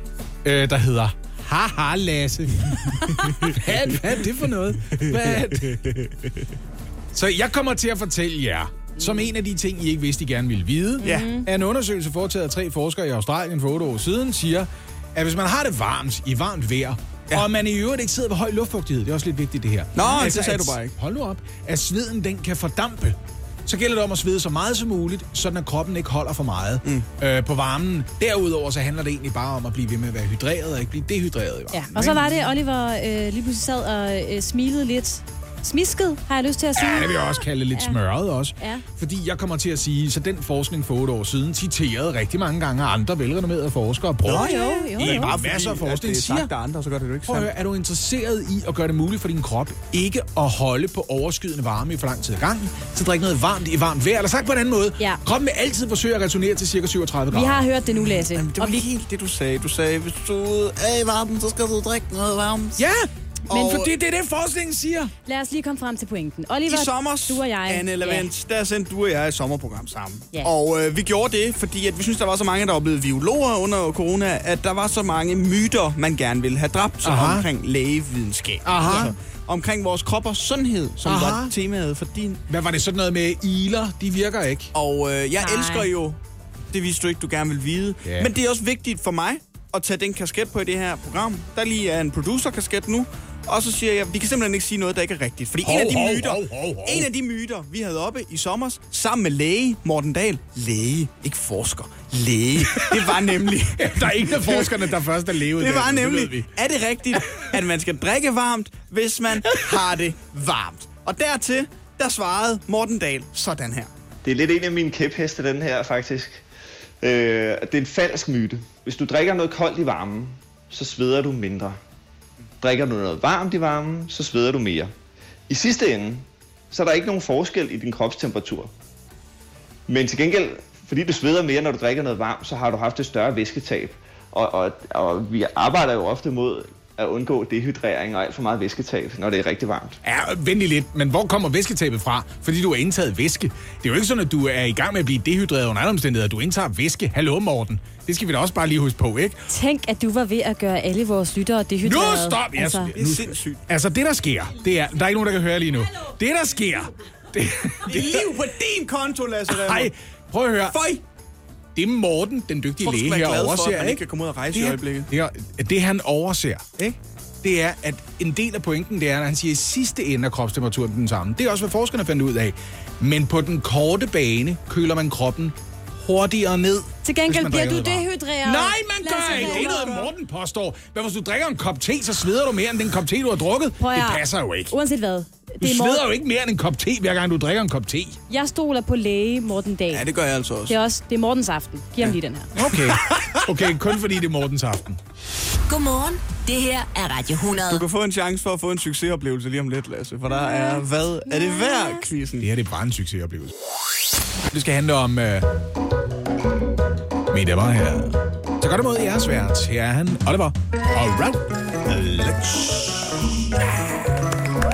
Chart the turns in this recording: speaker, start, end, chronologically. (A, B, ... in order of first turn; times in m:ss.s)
0:00.4-0:06.1 A
0:04.9-0:05.5 B
0:07.1-0:32.4 A
0:11.0-0:11.5 C
0:11.0-0:11.3 B
0:19.9-0:20.9 B
0:31.7-0:38.0 C
0:36.8-0:46.5 A
0:44.2-0:47.5 B
0:44.3-0:45.4 C
0:47.3-0:57.6 A
0:57.3-0:58.8 C
0:58.0-1:02.8 B
1:02.8-1:05.1 A
1:03.5-1:03.9 B
1:05.2-1:08.3 C
1:06.7-1:22.4 B
1:17.0-1:17.5 A
1:18.6-1:19.1 A
1:21.0-1:21.5 A
1:22.5-1:24.7 A
1:24.7-1:26.2 B
1:25.4-1:25.9 C
1:26.7-1:44.9 B
1:28.0-1:28.3 A
1:35.6-1:37.1 A
1:42.7-1:46.5 A
1:45.5-1:53.9 B
1:54.2-1:56.4 D
1:57.0-2:01.8 D
2:02.6-2:04.9 D
2:05.5-2:08.7 D
2:09.9-2:20.0 D
2:20.0-2:29.4 A
2:29.5-2:32.9 C
2:31.8-2:38.3 A
2:32.9-2:33.6 B
2:37.8-2:39.9 B
2:39.5-2:40.8 A
2:40.7-2:41.0 B
2:41.7-2:46.7 A
2:42.8-2:45.1 B
2:47.4-3:04.7 A
2:57.0-3:00.0 C
2:59.4-3:00.0 B
3:03.8-3:06.0 C
3:05.6-3:08.2 A
3:08.3-3:10.0 C
3:09.9-3:10.8 B
3:10.7-3:12.5 C
3:12.5-3:15.0 A
3:15.7-3:17.8 E
3:17.7-3:22.5 B
3:20.3-3:22.0 C
3:22.4-3:23.5 A
3:24.5-3:25.5 A
3:27.3-3:34.0 A